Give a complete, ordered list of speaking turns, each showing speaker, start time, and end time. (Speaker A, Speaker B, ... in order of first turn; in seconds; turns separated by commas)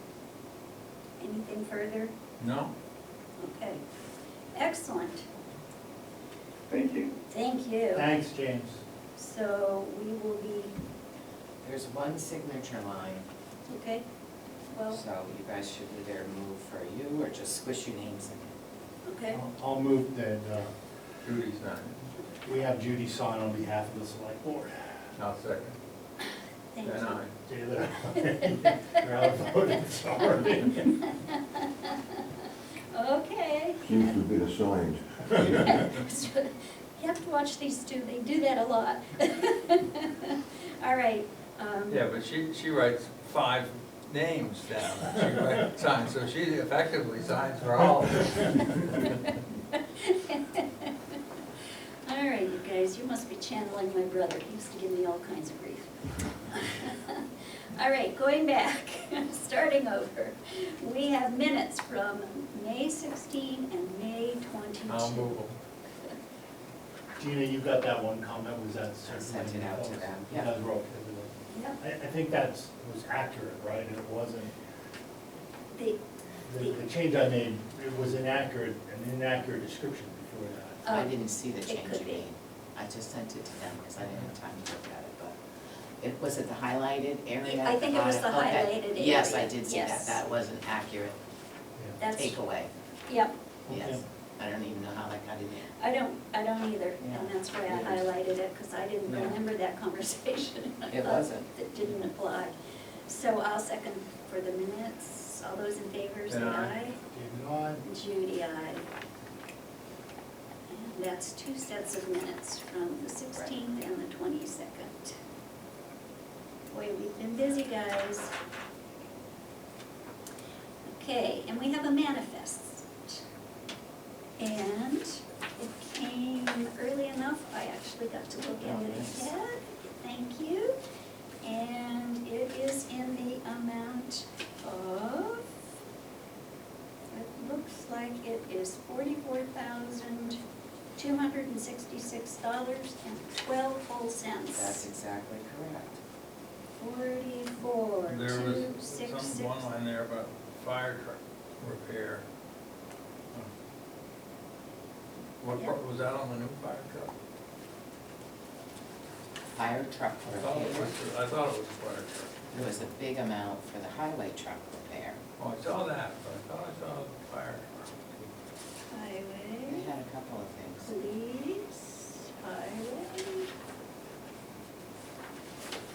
Speaker A: 1.2-2.1, Speaker B: 2.4-2.7, Speaker A: 3.4-3.8, Speaker A: 4.5-5.2, Speaker C: 6.7-7.1, Speaker A: 7.3-8.1, Speaker C: 7.9-8.8, Speaker A: 9.2-10.7, Speaker D: 11.6-13.3, Speaker A: 13.7-14.0, Speaker A: 14.7-15.0, Speaker D: 14.9-18.5, Speaker A: 19.0-19.4, Speaker C: 19.3-20.7, Speaker B: 21.2-22.0, Speaker C: 22.4-25.0, Speaker B: 25.2-25.8, Speaker A: 26.7-27.2, Speaker B: 26.8-27.4, Speaker C: 27.4-31.1, Speaker A: 28.2-29.0, Speaker A: 31.0-34.1, Speaker E: 33.8-35.9, Speaker A: 35.6-42.0, Speaker B: 41.9-49.2, Speaker A: 49.0-51.2, Speaker A: 52.0-65.4, Speaker B: 64.9-65.6, Speaker C: 67.2-74.5, Speaker D: 69.0-70.5, Speaker A: 71.5-71.8, Speaker A: 75.7-76.0, Speaker C: 76.4-80.9, Speaker A: 80.8-82.2, Speaker D: 80.9-85.4, Speaker C: 84.0-84.3, Speaker D: 86.0-91.2, Speaker A: 87.4-90.2, Speaker A: 92.0-92.4, Speaker D: 92.1-92.7, Speaker A: 93.1-93.3, Speaker C: 93.7-94.0, Speaker D: 93.7-95.7, Speaker A: 95.7-102.5, Speaker D: 97.0-98.1, Speaker D: 99.0-99.4, Speaker D: 100.9-101.9, Speaker A: 103.1-107.0, Speaker B: 106.3-106.7, Speaker C: 107.1-107.8, Speaker A: 107.8-108.8, Speaker A: 110.7-115.2, Speaker A: 116.7-118.3, Speaker A: 120.8-123.2, Speaker A: 124.4-130.8, Speaker D: 128.6-129.3, Speaker A: 131.4-135.6, Speaker A: 137.1-140.4, Speaker A: 140.9-144.8, Speaker D: 144.5-146.0, Speaker A: 146.8-149.7, Speaker B: 148.1-152.2, Speaker B: 155.4-157.1, Speaker D: 159.5-160.9, Speaker B: 160.3-162.8, Speaker D: 162.5-165.2, Speaker B: 165.4-168.3, Speaker A: 168.9-169.9, Speaker D: 169.6-170.9, Speaker A: 170.8-173.5